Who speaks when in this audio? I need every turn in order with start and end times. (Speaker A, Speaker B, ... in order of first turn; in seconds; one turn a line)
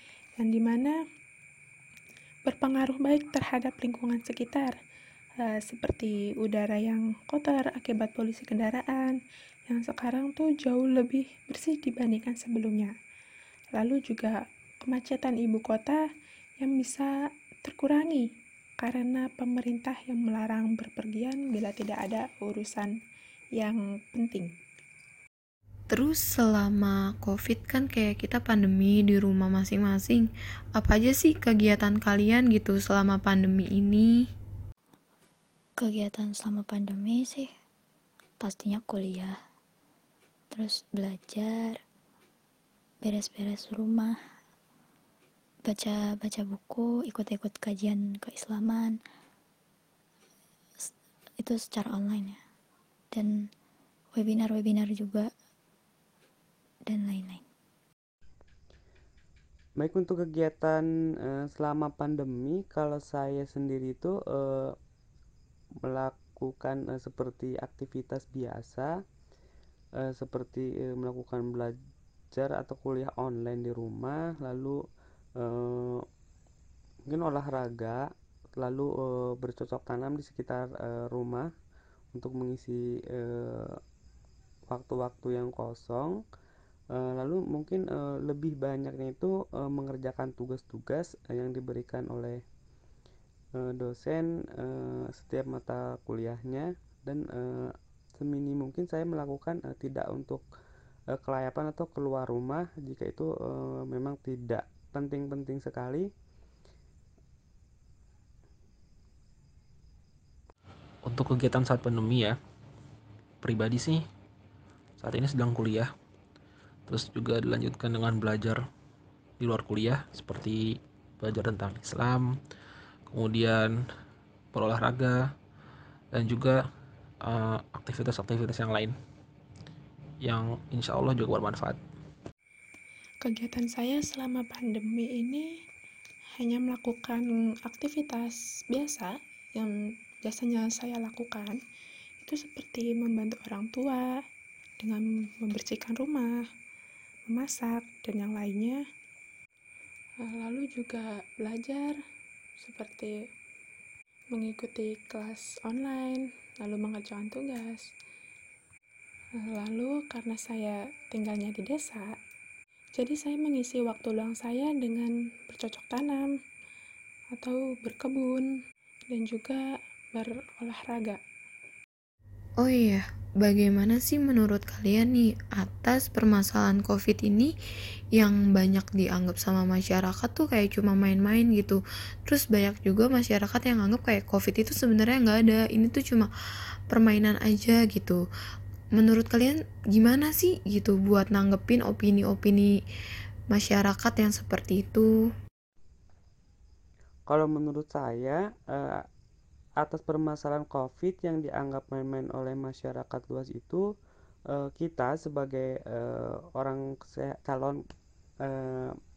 Speaker A: 0.4-0.9
Speaker A: 2.5-4.8
Speaker A: 5.4-12.9
Speaker A: 13.7-16.0
Speaker A: 16.6-17.1
Speaker A: 17.6-18.2
Speaker A: 18.8-22.9
Speaker A: 23.6-24.5
Speaker B: 25.9-34.2
Speaker C: 35.8-37.5
Speaker C: 38.4-39.4
Speaker C: 40.5-41.8
Speaker C: 43.0-44.1
Speaker C: 45.6-49.0
Speaker C: 50.8-52.4
Speaker C: 53.1-53.5
Speaker C: 54.1-55.3
Speaker C: 56.9-57.4
Speaker D: 59.8-64.8
Speaker D: 65.8-69.0
Speaker D: 70.0-71.8
Speaker D: 72.3-74.8
Speaker D: 75.4-76.0
Speaker D: 77.1-81.5
Speaker D: 82.1-83.8
Speaker D: 84.7-86.2
Speaker D: 86.9-92.4
Speaker D: 93.6-100.4
Speaker D: 101.1-106.1
Speaker E: 111.0-112.4
Speaker E: 113.4-114.0
Speaker E: 115.0-115.9
Speaker E: 116.9-118.6
Speaker E: 119.4-122.3
Speaker E: 123.1-123.8
Speaker E: 124.5-125.2
Speaker E: 126.1-126.6
Speaker E: 127.2-128.9
Speaker E: 130.2-131.8
Speaker A: 133.2-135.5
Speaker A: 136.3-139.7
Speaker A: 140.2-141.6
Speaker A: 142.2-144.2
Speaker A: 144.8-146.4
Speaker A: 147.3-148.8
Speaker A: 150.2-151.9
Speaker A: 152.6-153.1
Speaker A: 154.3-157.9
Speaker A: 159.4-162.2
Speaker A: 162.9-166.3
Speaker A: 167.3-168.5
Speaker A: 169.1-169.6
Speaker A: 170.1-171.2
Speaker B: 172.6-177.5
Speaker B: 178.2-186.3
Speaker B: 186.9-188.2
Speaker B: 188.9-192.8
Speaker B: 193.5-195.3
Speaker D: 197.3-199.1
Speaker D: 199.8-203.8
Speaker D: 204.5-207.8
Speaker D: 208.4-209.0